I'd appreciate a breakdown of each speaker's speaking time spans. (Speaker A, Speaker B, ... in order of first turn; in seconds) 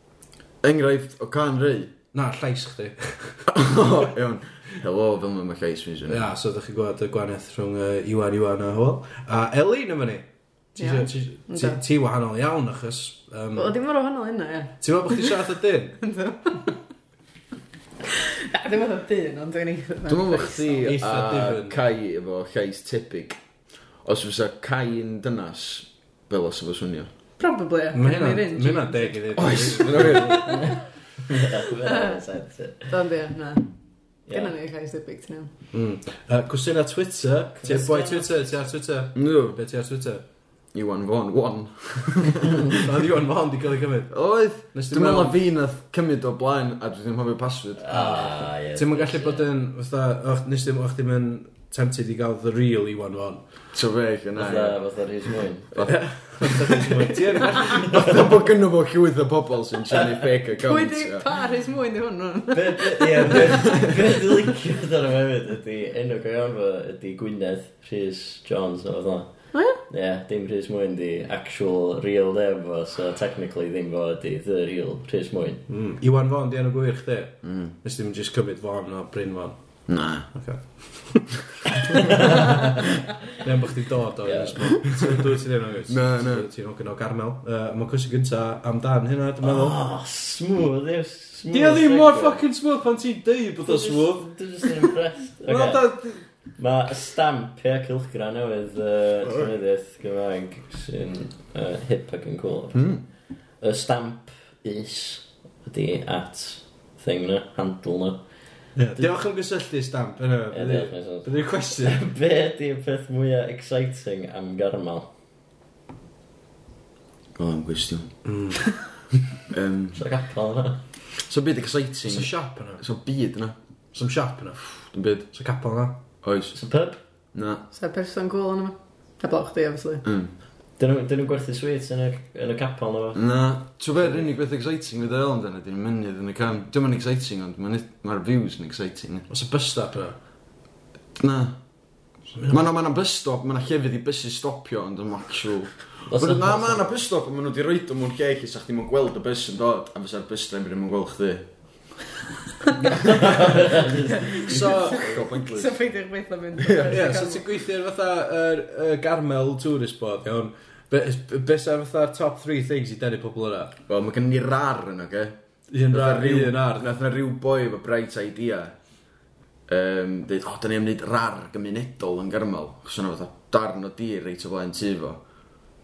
Speaker A: 0.6-1.9, 3.5-6.3, 20.1-23.4, 24.0-27.1, 29.4-30.8, 39.1-39.6, 40.7-42.8, 44.1-47.9, 53.7-54.8, 55.7-61.2, 77.4-77.7, 79.9-80.3, 84.9-85.3, 85.9-86.5, 102.7-103.0, 117.4-118.1, 119.5-120.0, 121.2-123.5, 124.9-125.3, 126.2-126.6, 127.3-127.6, 130.1-130.3, 133.2-139.3, 141.2-141.6, 142.5-152.0, 153.1-153.6, 154.6-155.8, 156.6-157.2, 163.9-165.3, 165.9-168.8, 169.7-175.2
Speaker B: 2.1-3.5, 6.1-13.8, 14.8-16.0, 20.8-21.8, 27.9-30.5, 35.7-40.2, 42.7-45.4, 47.9-53.4, 55.8-58.2, 75.7-79.6, 80.3-82.7, 83.3-89.8, 91.5-94.3, 95.5-96.2, 108.8-112.1, 118.2-118.6, 122.1-122.8, 123.9-124.7, 125.3-126.0, 139.3-140.2, 142.3-142.6, 154.4-155.1, 156.9-163.8, 165.7-167.0
Speaker C: 10.8-11.8, 13.6-15.3, 16.0-16.8, 18.1-20.9, 27.4-29.6, 31.9-32.2, 32.9-33.7, 34.3-35.5, 60.7-63.8, 69.5-69.8, 127.7-130.0, 154.1-157.5
Speaker D: 30.2-30.8, 31.3-32.9, 34.3-34.5, 37.6-38.3, 47.8-49.5, 54.4-55.7, 62.5-75.7, 82.2-82.7, 84.2-84.7, 89.4-92.4, 93.6-95.9, 96.6-102.9, 103.6-108.2, 110.5-115.1, 120.0-120.8, 126.5-127.0, 130.8-133.2, 146.1-146.9, 153.0-154.9